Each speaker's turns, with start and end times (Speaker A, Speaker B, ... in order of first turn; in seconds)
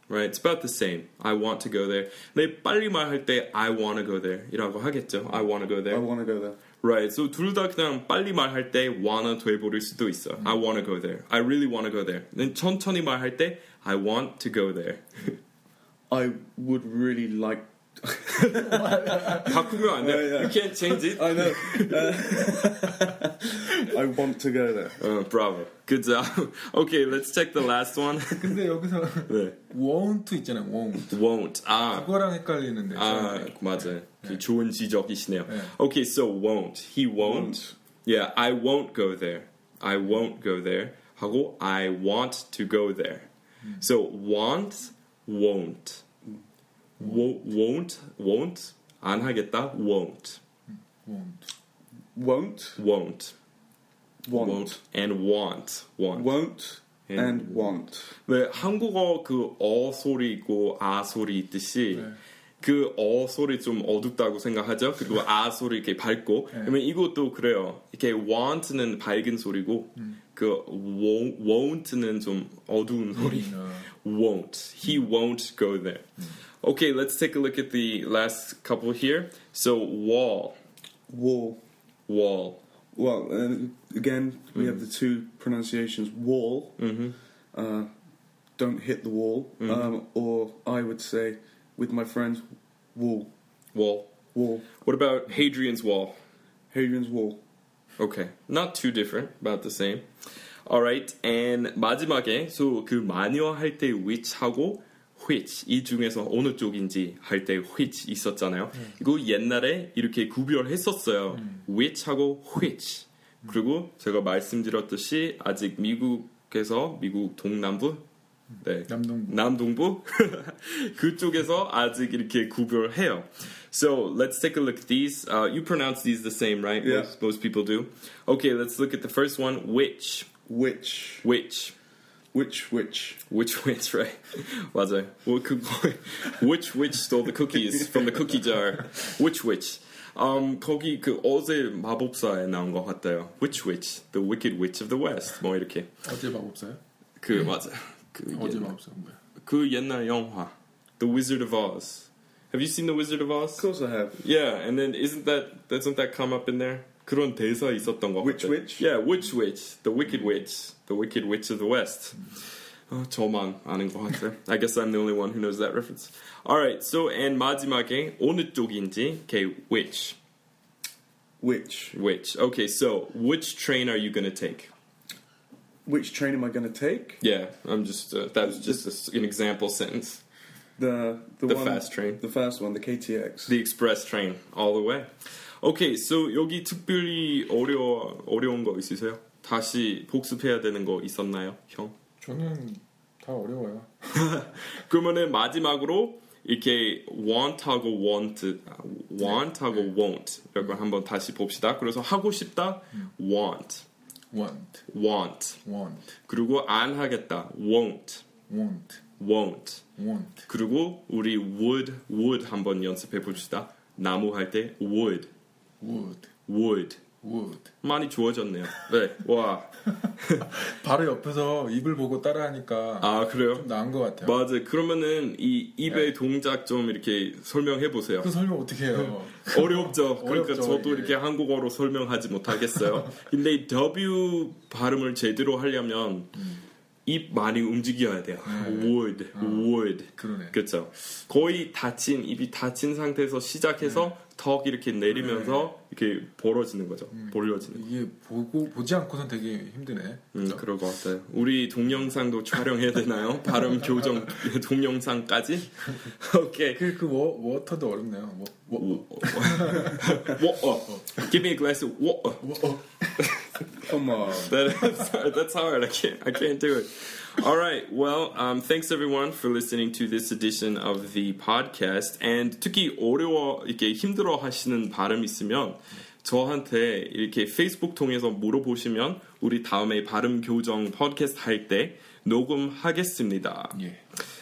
Speaker A: 0.1-6.1, 6.8-15.4, 19.3-22.4, 25.0-28.6, 29.3-29.6, 31.1-32.1, 32.9-46.0, 47.0-50.4, 52.8-53.3, 54.3-56.4, 57.1-76.1, 76.6-80.6, 82.1-82.6, 84.5-84.8, 86.8-87.2, 89.6-89.9, 93.7-94.1, 94.7-96.2, 98.0-100.1, 100.7-118.0, 118.6-130.3, 131.2-131.8, 133.3-145.9, 147.2-148.7, 149.4-162.3, 162.9-170.2, 171.9-174.7, 177.2-180.2, 181.5-182.2, 183.5-185.1, 185.6-191.9, 194.2-203.9, 204.9-205.6, 206.3-208.3, 209.2-209.8, 210.5-215.3, 216.5-217.1, 217.8-220.5, 223.0-223.7, 224.2-228.3, 229.5-236.4, 237.1-247.8, 250.3-256.8, 258.8-262.7, 263.2-263.5, 264.3-283.8
Speaker B: 5.9-6.6, 16.1-25.0, 37.2-37.7, 52.1-52.8, 54.2-54.8, 56.1-58.1, 81.1-81.6, 82.9-86.8, 87.5-87.9, 88.6-93.3, 94.3-94.7, 96.7-97.4, 126.8-127.1, 130.5-131.2, 132.3-133.2, 153.6-154.2, 158.2-158.9, 171.4-171.9, 175.9-177.2, 178.5-178.8, 180.8-183.5, 263.8-264.6
Speaker C: 18.5-19.8, 28.3-31.2, 31.9-34.4, 51.0-51.5, 73.2-73.9, 118.9-119.4, 146.0-146.8, 148.3-149.2, 192.2-194.1, 204.3-204.9, 205.6-206.1, 208.5-209.0, 210.0-210.5, 215.8-216.3, 217.2-217.7, 220.4-224.4, 228.2-231.2, 238.4-240.6, 245.2-245.7, 247.1-250.6, 256.8-260.1, 262.4-263.4